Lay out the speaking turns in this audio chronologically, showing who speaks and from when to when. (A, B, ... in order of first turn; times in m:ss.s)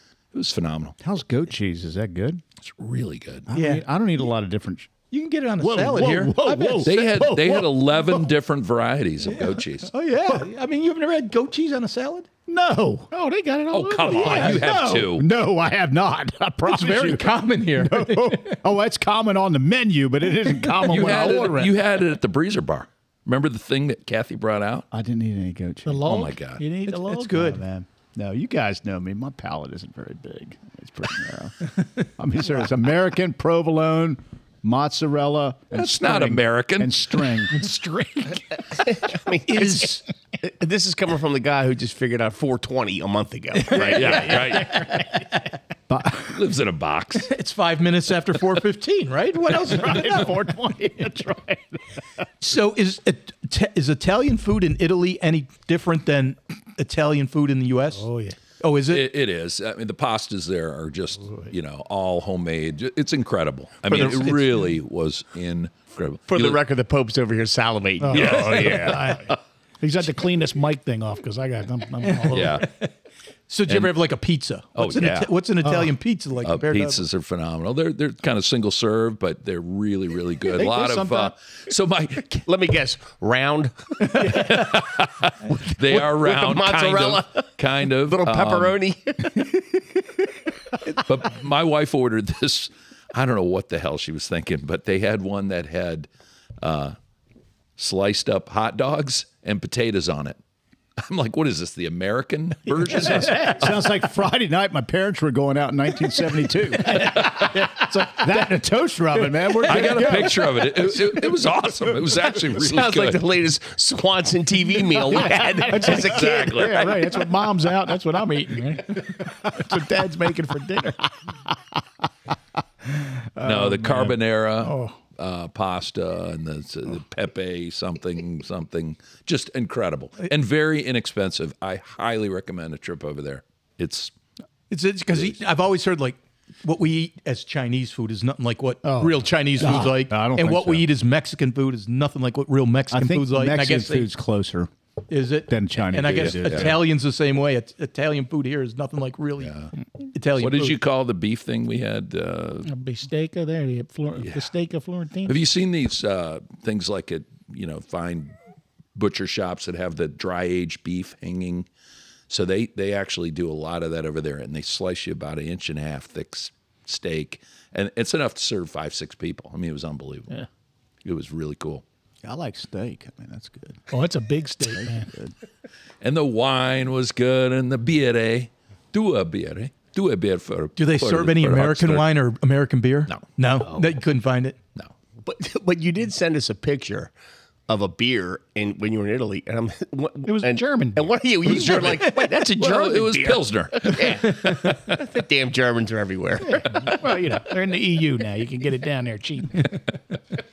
0:00.3-0:01.0 A
0:01.0-0:02.4 B
0:02.6-0:03.5 A
0:03.5-0:04.9 B
0:03.5-0:03.8 C
0:05.1-0:07.0 C
0:05.6-0:08.2 B
0:06.8-0:09.9 A
0:09.3-0:12.3 C
0:12.5-0:13.1 B
0:13.1-0:14.8 D
0:13.7-0:15.3 A
0:14.2-0:15.0 C
0:14.3-0:21.8 B
0:16.7-0:18.6 C
0:20.8-0:24.9 A
0:24.9-0:26.1 B
0:25.9-0:27.4 D
0:26.0-0:26.6 A
0:26.9-0:27.6 C
0:27.3-0:37.7 B
0:35.7-0:37.5 A
0:37.5-0:38.4 D
0:38.7-0:44.7 E
0:39.5-0:40.0 C
0:43.7-0:45.2 C
0:43.7-0:44.9 A
0:45.9-0:46.4 B
0:46.2-0:47.3 A
0:47.2-0:50.3 C
0:49.5-0:51.8 B
0:52.4-0:58.1 C
0:58.0-0:58.4 D
0:58.6-0:59.1 C
0:58.9-1:06.6 A
1:03.9-1:04.4 E
1:06.3-1:08.9 E
1:08.0-1:12.6 D
1:08.1-1:09.4 A
1:08.3-1:08.8 B
1:12.1-1:12.9 C
1:12.3-1:12.7 A
1:13.5-1:17.0 C
1:14.8-1:15.3 A
1:16.4-1:22.4 A
1:20.5-1:21.3 D
1:22.5-1:24.8 E
1:24.1-1:28.8 A
1:25.9-1:27.5 E
1:28.1-1:29.8 E
1:31.0-1:36.1 A
1:36.6-1:37.0 A
1:37.8-1:40.4 A
1:41.0-1:43.8 A
1:43.0-1:51.2 B
1:46.9-1:48.3 D
1:49.6-1:53.2 A
1:52.5-1:57.0 E
1:55.2-2:01.1 D
1:55.8-1:56.8 A
2:03.4-2:04.1 B
2:03.4-2:14.1 A
2:04.6-2:05.0 D
2:14.7-2:24.1 C
2:18.8-2:20.9 B
2:22.9-2:24.7 B
2:25.1-2:29.5 C
2:25.5-2:26.8 B
2:26.1-2:26.8 A
2:29.4-2:29.7 A
2:30.1-2:30.8 C
2:30.4-2:32.7 A
2:32.6-2:35.4 D
2:34.2-2:34.4 A
2:35.3-2:38.3 A
2:39.0-2:41.7 A
2:42.3-2:50.4 A
2:51.0-2:51.8 A
2:52.2-2:53.9 B
2:53.9-2:55.1 D
2:54.6-2:55.3 B
2:56.0-3:02.1 A
3:00.8-3:04.6 C
3:03.1-3:03.8 A
3:05.2-3:07.1 E
3:07.7-3:17.1 E
3:10.3-3:11.1 D
3:11.5-3:14.3 A
3:16.4-3:19.8 D